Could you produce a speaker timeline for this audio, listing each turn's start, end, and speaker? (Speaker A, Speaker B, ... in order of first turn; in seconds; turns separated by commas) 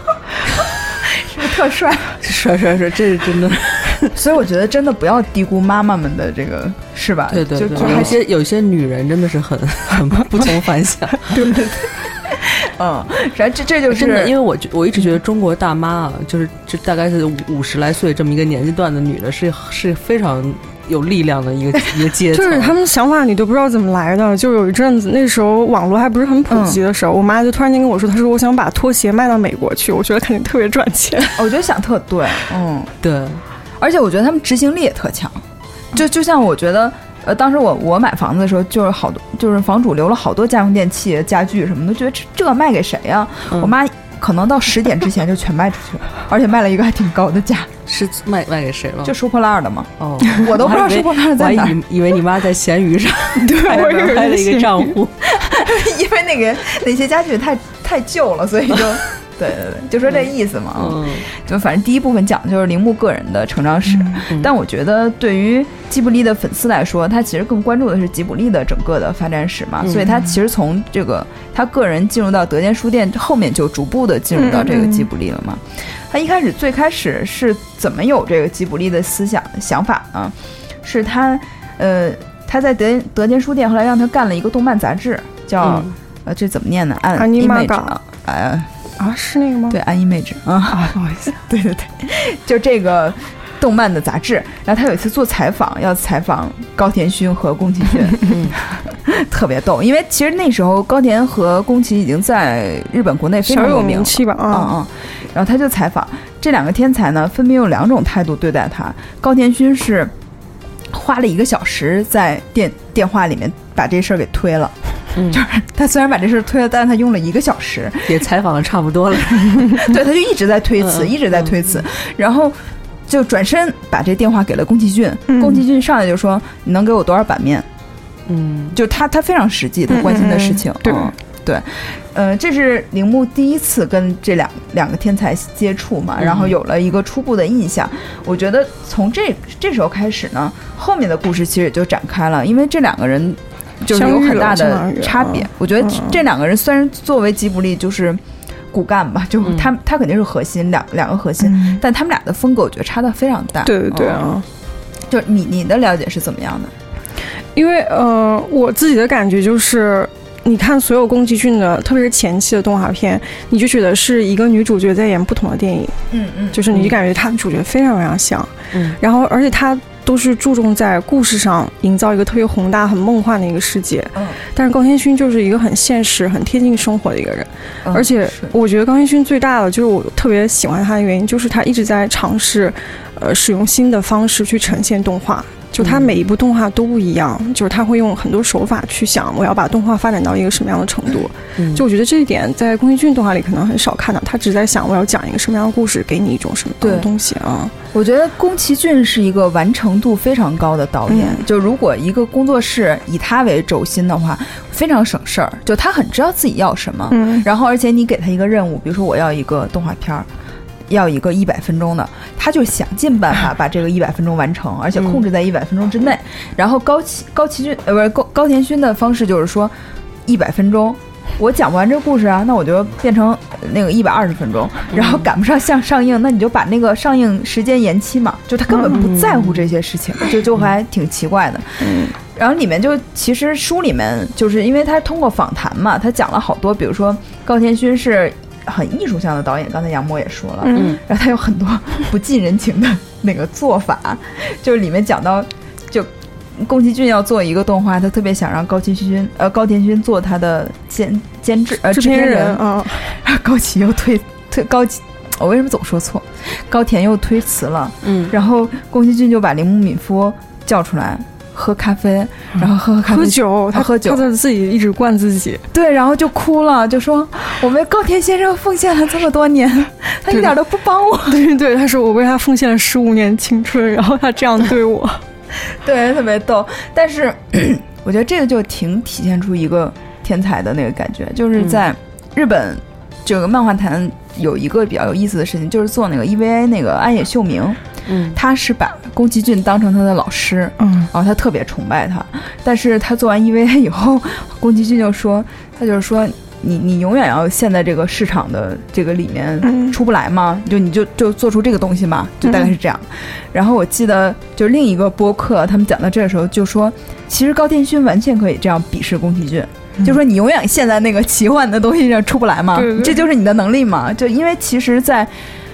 Speaker A: 0.8-2.2, Speaker B: 2.2-4.2, Speaker A: 4.1-8.2, Speaker B: 7.3-11.6, Speaker C: 7.8-8.1, Speaker A: 11.3-14.3, Speaker B: 13.9-22.7, Speaker C: 22.3-31.4, Speaker A: 26.5-26.8, Speaker A: 31.4-32.9, Speaker B: 33.0-33.4, Speaker A: 33.8-47.7, Speaker B: 47.9-49.1, Speaker A: 49.0-51.8, Speaker B: 50.0-55.1, Speaker C: 53.4-55.0, Speaker A: 53.5-54.3, Speaker A: 55.2-88.7, Speaker B: 60.2-61.3, Speaker B: 69.8-70.1, Speaker C: 74.3-75.1, Speaker B: 85.6-86.0, Speaker C: 87.2-88.0, Speaker C: 89.0-89.8, Speaker A: 89.7-110.1, Speaker C: 90.7-91.3, Speaker B: 98.2-98.5, Speaker C: 103.4-104.7, Speaker A: 110.9-114.7, Speaker B: 115.2-115.4, Speaker A: 115.2-118.1, Speaker B: 118.0-119.9, Speaker A: 119.8-127.7, Speaker B: 120.8-121.5, Speaker C: 125.3-125.6, Speaker B: 128.3-128.8, Speaker A: 128.7-148.2, Speaker C: 129.9-131.1, Speaker B: 136.2-136.6, Speaker C: 143.9-146.2, Speaker A: 148.7-154.3, Speaker B: 149.4-149.7, Speaker C: 151.4-151.8, Speaker C: 153.6-154.4, Speaker A: 155.1-156.7, Speaker C: 157.5-165.9, Speaker A: 166.1-166.6, Speaker C: 166.5-197.7, Speaker B: 166.7-166.9, Speaker B: 168.7-169.0, Speaker A: 177.8-178.5, Speaker B: 185.8-186.1, Speaker B: 191.6-191.8, Speaker A: 196.8-197.1, Speaker A: 197.9-210.3, Speaker C: 201.1-201.4, Speaker C: 207.1-207.4, Speaker A: 210.9-219.7, Speaker A: 220.2-264.2, Speaker B: 224.9-225.2, Speaker B: 228.9-229.7, Speaker C: 240.6-240.9, Speaker B: 240.7-241.0, Speaker C: 251.8-253.2, Speaker B: 258.0-258.3, Speaker C: 263.1-265.6, Speaker A: 265.7-271.4, Speaker C: 271.2-275.2, Speaker A: 275.7-287.8, Speaker B: 288.1-288.4, Speaker A: 288.3-315.3, Speaker C: 290.8-291.1, Speaker C: 299.6-299.9, Speaker C: 302.4-302.7, Speaker C: 312.7-313.2